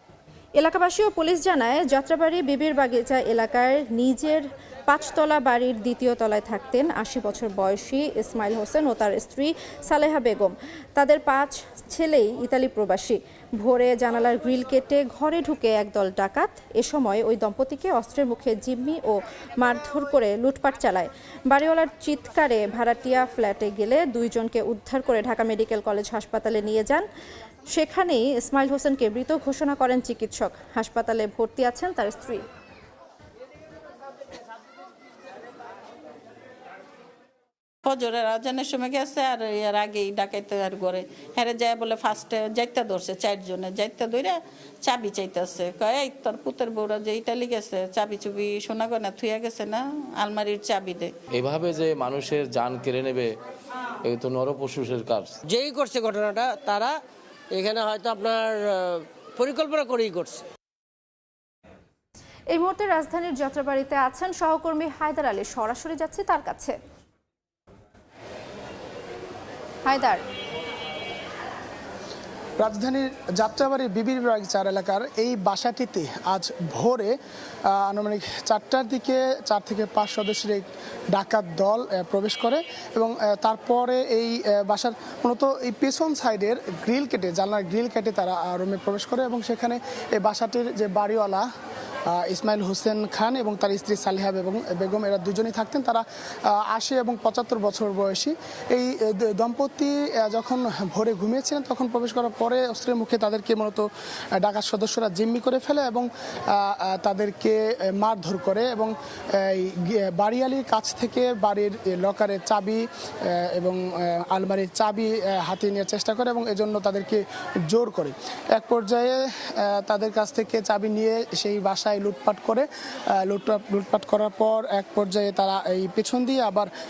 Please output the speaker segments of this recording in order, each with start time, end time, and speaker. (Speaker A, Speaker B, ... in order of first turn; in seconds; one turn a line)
Speaker A: 0.6-27.1
Speaker A: 27.7-32.5
Speaker B: 37.9-51.1
Speaker C: 51.3-53.3
Speaker C: 54.0-55.4
Speaker D: 55.5-57.0
Speaker D: 57.5-60.5
Speaker A: 62.5-66.8
Speaker A: 69.8-70.2
Speaker E: 72.6-91.5
Speaker E: 92.1-126.7